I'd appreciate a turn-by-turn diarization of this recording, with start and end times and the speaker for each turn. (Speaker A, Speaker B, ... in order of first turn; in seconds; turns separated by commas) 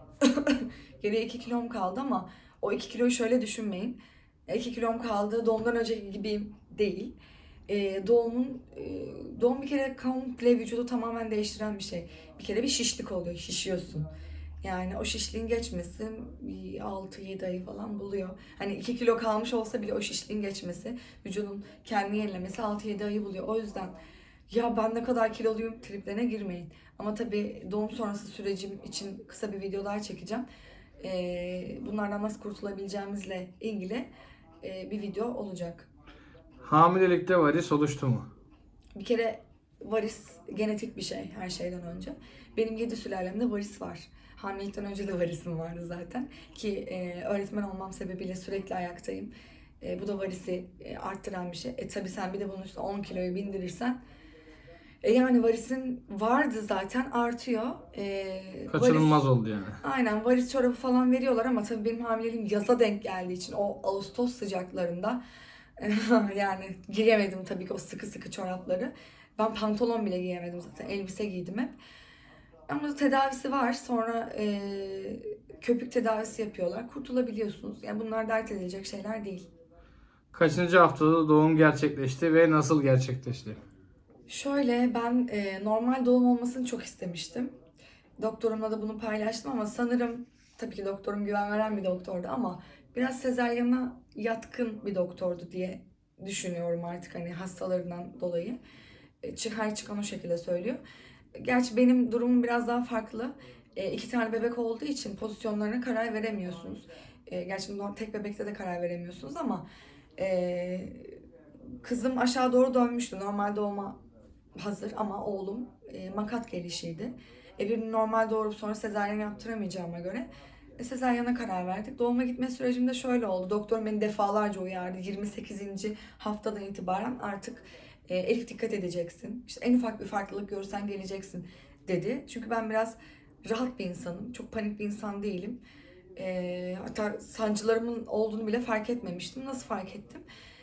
Speaker A: 0.2-7.2, Speaker A: 7.7-14.1, Speaker A: 14.6-23.9, Speaker A: 24.5-30.4, Speaker A: 31.0-34.1, Speaker A: 34.6-35.9, Speaker B: 36.6-38.3, Speaker A: 39.0-54.0, Speaker A: 55.0-59.2, Speaker B: 58.7-59.8, Speaker A: 59.8-65.2, Speaker A: 65.8-71.8, Speaker A: 72.7-79.5, Speaker B: 80.3-83.6, Speaker A: 84.3-87.5, Speaker A: 88.2-98.6, Speaker A: 99.2-100.8, Speaker A: 101.3-109.7, Speaker A: 110.2-111.2, Speaker A: 111.8-114.0, Speaker A: 114.6-135.6, Speaker A: 136.2-140.2